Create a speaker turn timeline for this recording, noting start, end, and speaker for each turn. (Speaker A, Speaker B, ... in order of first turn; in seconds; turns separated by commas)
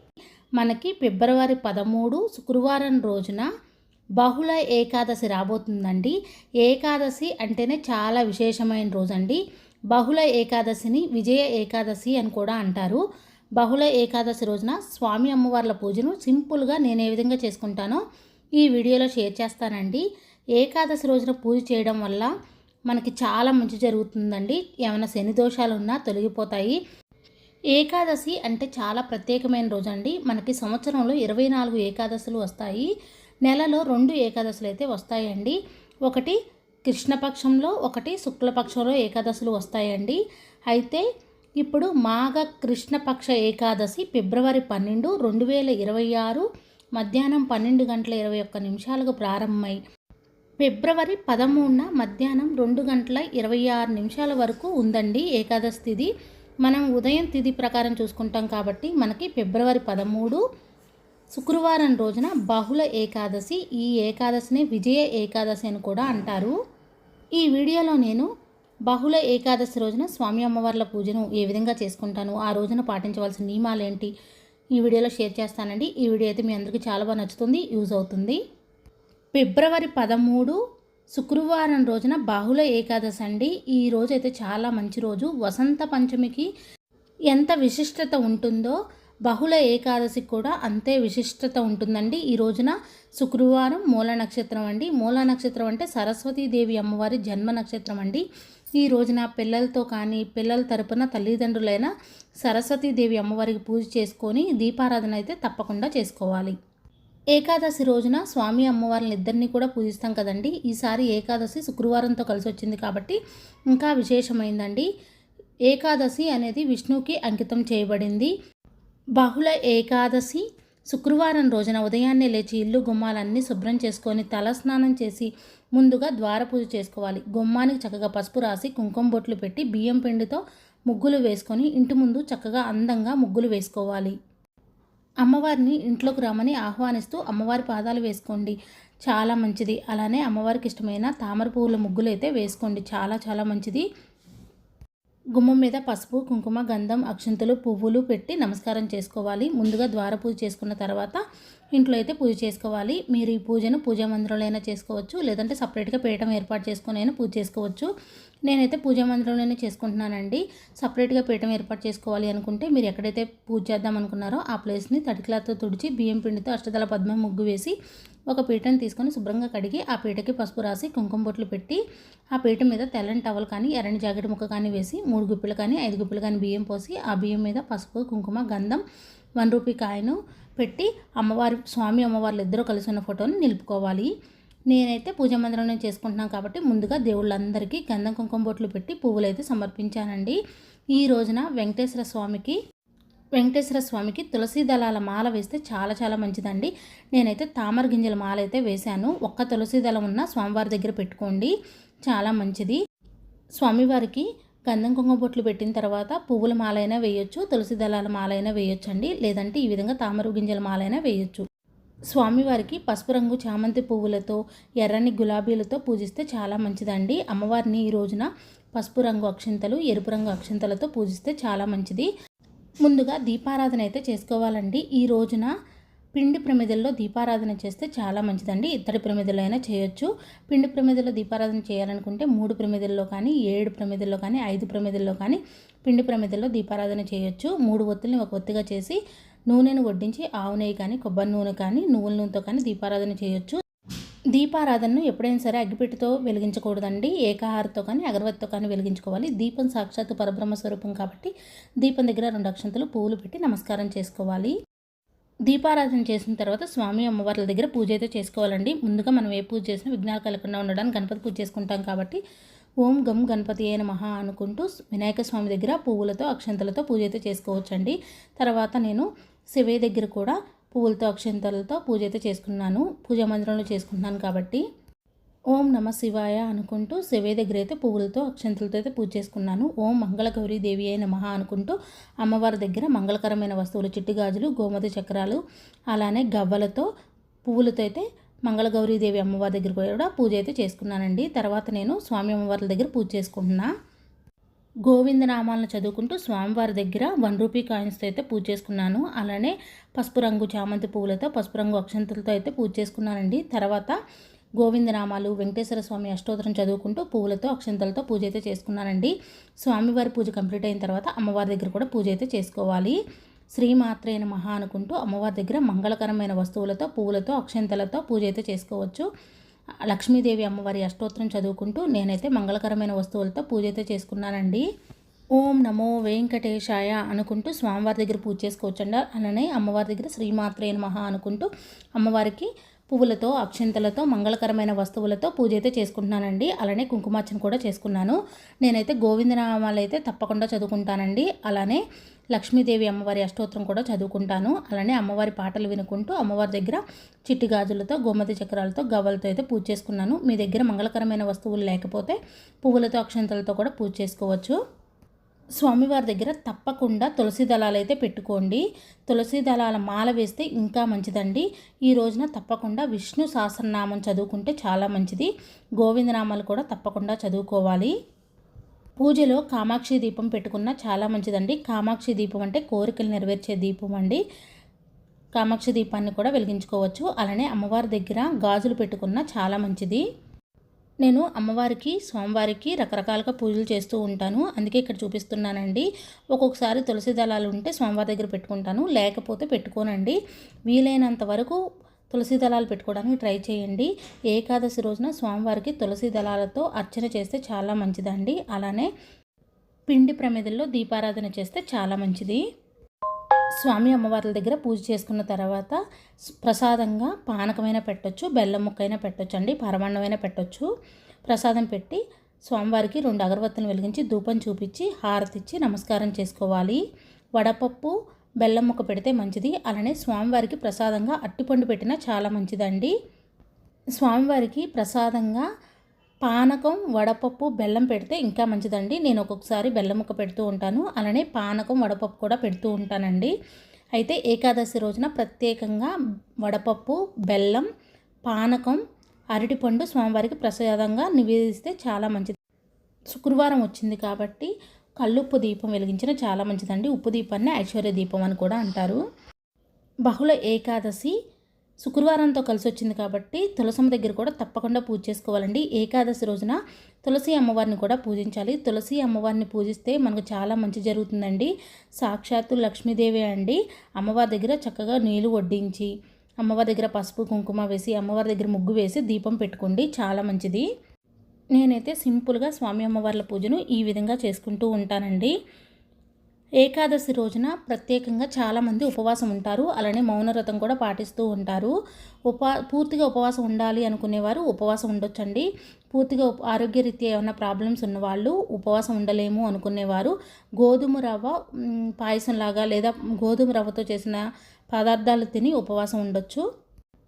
Speaker A: 0.6-3.5, Speaker A: 4.2-13.0, Speaker A: 13.6-18.0, Speaker A: 18.6-20.0, Speaker A: 20.6-22.3, Speaker A: 22.9-26.8, Speaker A: 27.7-32.9, Speaker A: 33.4-40.2, Speaker A: 40.7-41.0, Speaker A: 41.6-49.8, Speaker A: 50.6-56.1, Speaker A: 56.6-60.4, Speaker A: 61.3-66.5, Speaker A: 67.4-68.3, Speaker A: 68.9-74.1, Speaker A: 74.8-78.4, Speaker A: 79.3-80.6, Speaker A: 81.1-86.5, Speaker A: 87.3-98.2, Speaker A: 98.8-106.5, Speaker A: 107.3-113.2, Speaker A: 113.7-114.9, Speaker A: 115.7-118.3, Speaker A: 119.2-134.1, Speaker A: 135.2-143.8, Speaker A: 145.3-151.2, Speaker A: 151.7-157.9, Speaker A: 158.5-167.7, Speaker A: 168.3-171.8, Speaker A: 172.3-178.8, Speaker A: 179.4-184.1, Speaker A: 184.7-190.4, Speaker A: 190.9-192.6, Speaker A: 193.4-201.5, Speaker A: 202.1-202.8, Speaker A: 203.6-211.4, Speaker A: 212.1-222.1, Speaker A: 222.8-225.5, Speaker A: 226.1-239.0, Speaker A: 239.5-243.6, Speaker A: 244.3-251.3, Speaker A: 251.8-254.5, Speaker A: 255.5-262.2, Speaker A: 262.8-274.6, Speaker A: 275.5-285.4, Speaker A: 285.9-286.9, Speaker A: 287.4-293.7, Speaker A: 294.9-304.0, Speaker A: 304.6-313.0, Speaker A: 313.5-319.1, Speaker A: 319.9-324.6, Speaker A: 325.4-354.6, Speaker A: 355.6-367.9, Speaker A: 369.0-374.2, Speaker A: 375.4-380.0, Speaker A: 381.0-390.2, Speaker A: 390.7-391.6, Speaker A: 392.1-398.9, Speaker A: 399.9-402.4, Speaker A: 403.6-410.7, Speaker A: 411.3-416.8, Speaker A: 417.4-422.9, Speaker A: 424.0-425.4, Speaker A: 426.2-433.3, Speaker A: 434.0-435.9, Speaker A: 436.4-437.7, Speaker A: 438.3-438.8, Speaker A: 439.3-442.4, Speaker A: 443.1-449.0, Speaker A: 450.1-451.1, Speaker A: 451.8-470.6, Speaker A: 471.6-475.3, Speaker A: 476.6-481.7, Speaker A: 482.3-491.4, Speaker A: 491.9-496.4